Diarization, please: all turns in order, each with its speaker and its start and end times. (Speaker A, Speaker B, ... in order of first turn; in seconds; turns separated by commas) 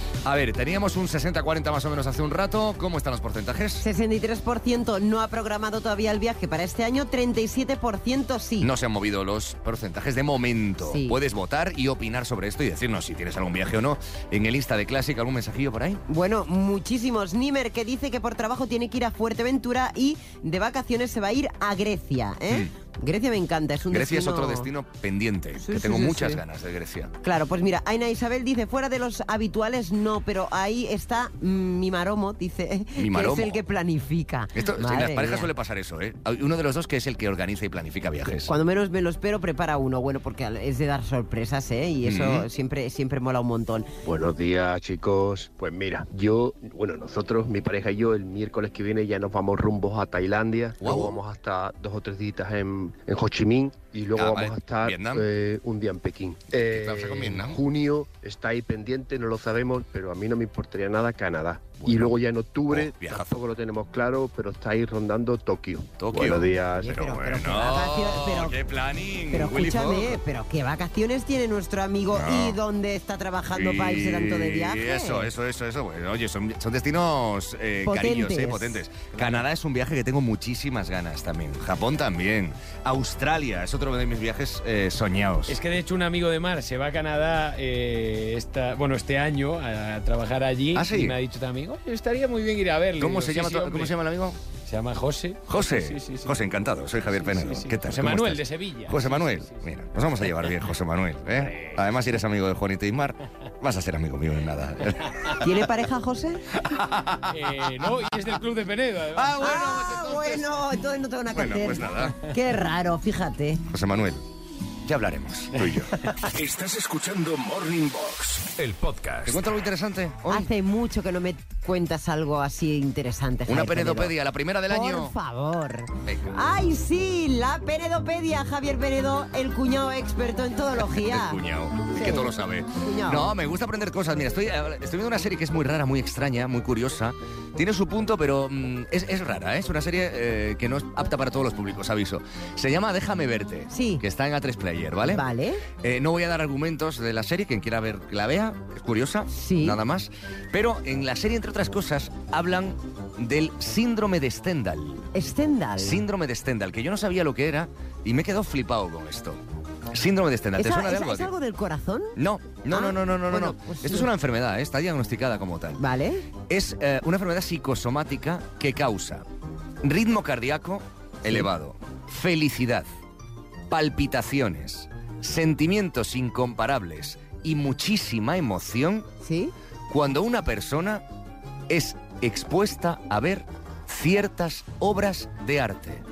Speaker A: 0.2-3.8, Speaker B: 3.8-8.7, Speaker A: 8.6-16.0, Speaker B: 10.8-11.2, Speaker B: 16.1-24.7, Speaker A: 23.9-27.1, Speaker B: 25.6-26.4, Speaker B: 27.2-35.5, Speaker A: 33.0-33.6, Speaker A: 34.6-38.5, Speaker B: 38.5-43.9, Speaker A: 42.0-42.5, Speaker C: 44.0-67.0, Speaker A: 50.8-51.1, Speaker A: 54.1-55.2, Speaker A: 56.7-57.6, Speaker A: 61.8-62.2, Speaker A: 62.7-63.4, Speaker A: 66.0-70.2, Speaker B: 66.8-68.6, Speaker B: 69.3-75.3, Speaker A: 72.1-72.6, Speaker A: 73.5-85.5, Speaker B: 77.8-78.8, Speaker D: 85.5-93.9, Speaker A: 90.8-91.2, Speaker A: 93.0-94.4, Speaker D: 94.7-96.3, Speaker A: 95.5-105.1, Speaker D: 97.1-99.7, Speaker D: 101.5-101.8, Speaker B: 105.4-106.5, Speaker A: 106.6-107.3, Speaker D: 107.3-109.8, Speaker A: 109.2-110.1, Speaker B: 109.4-113.6, Speaker A: 111.3-112.2, Speaker A: 113.7-114.2, Speaker A: 114.8-116.1, Speaker E: 116.3-119.4, Speaker A: 119.3-120.5, Speaker B: 120.3-124.1, Speaker A: 123.5-125.1, Speaker B: 124.7-131.4, Speaker A: 126.1-126.4, Speaker A: 130.9-145.2, Speaker B: 131.9-133.3, Speaker B: 143.7-144.0, Speaker B: 145.1-145.6, Speaker A: 145.8-155.1, Speaker B: 149.3-149.8, Speaker B: 155.1-156.0, Speaker A: 155.8-159.4, Speaker A: 159.9-161.3, Speaker B: 160.6-164.1, Speaker A: 162.2-165.8, Speaker B: 165.8-166.3, Speaker A: 166.4-169.2, Speaker A: 169.8-172.9, Speaker A: 173.7-179.1, Speaker B: 179.2-179.5, Speaker A: 179.9-181.1, Speaker A: 181.7-186.0